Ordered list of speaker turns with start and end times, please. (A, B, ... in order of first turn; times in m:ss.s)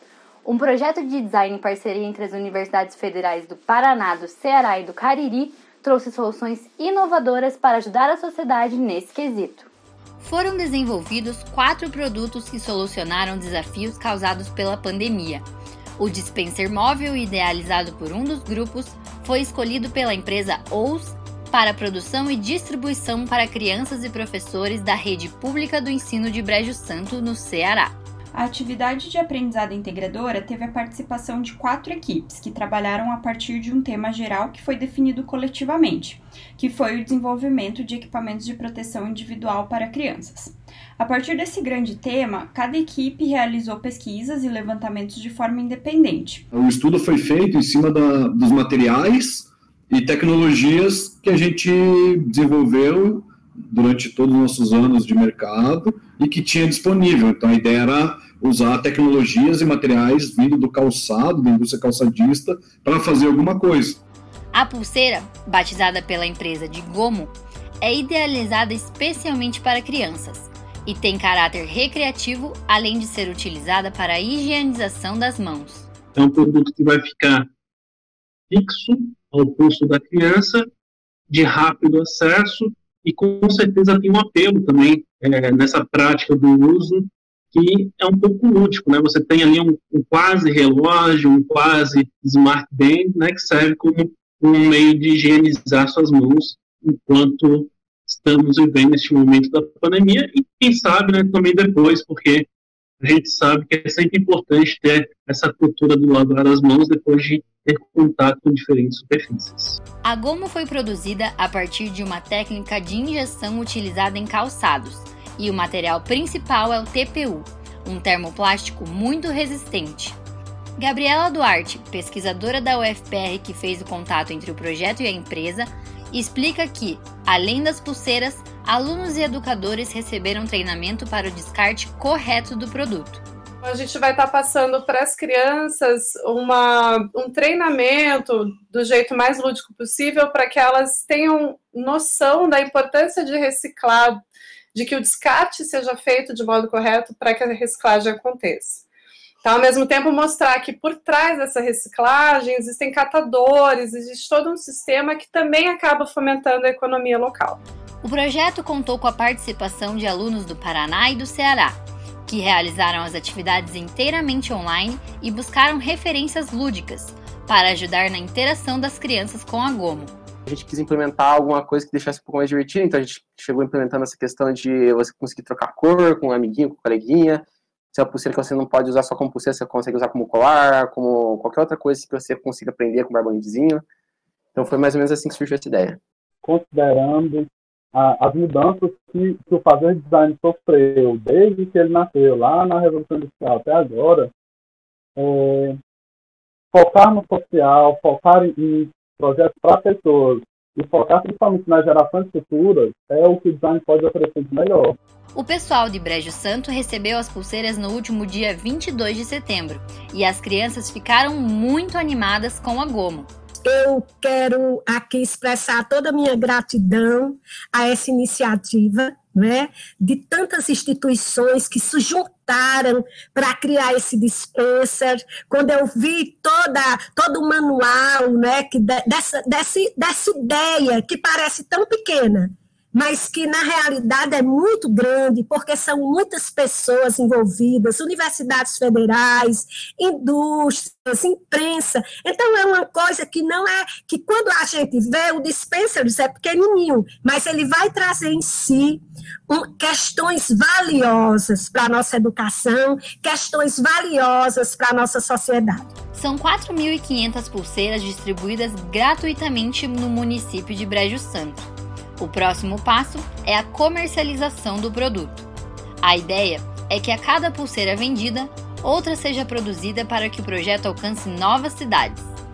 0:00.4-0:09.7 A
0:10.2-0:15.4 A
0:16.0-0:27.9 A
0:28.3-0:46.4 B
0:46.5-1:04.0 C
1:04.5-1:15.9 A
1:16.1-1:17.5 D
1:18.5-1:20.7 D
1:21.3-1:42.5 D
1:43.0-1:49.8 D
1:50.0-2:00.2 A
2:00.8-2:13.2 A
2:13.6-2:24.2 E
2:24.7-2:28.8 E
2:29.4-2:37.6 E
2:38.0-2:50.1 A
2:50.4-3:03.8 F
3:04.5-3:06.0 F
3:06.4-3:14.3 G
3:15.2-3:15.8 G
3:16.7-3:25.0 G
3:25.3-3:33.3 A
3:33.6-4:15.9 H
4:16.1-4:25.4 A
4:26.0-4:32.3 A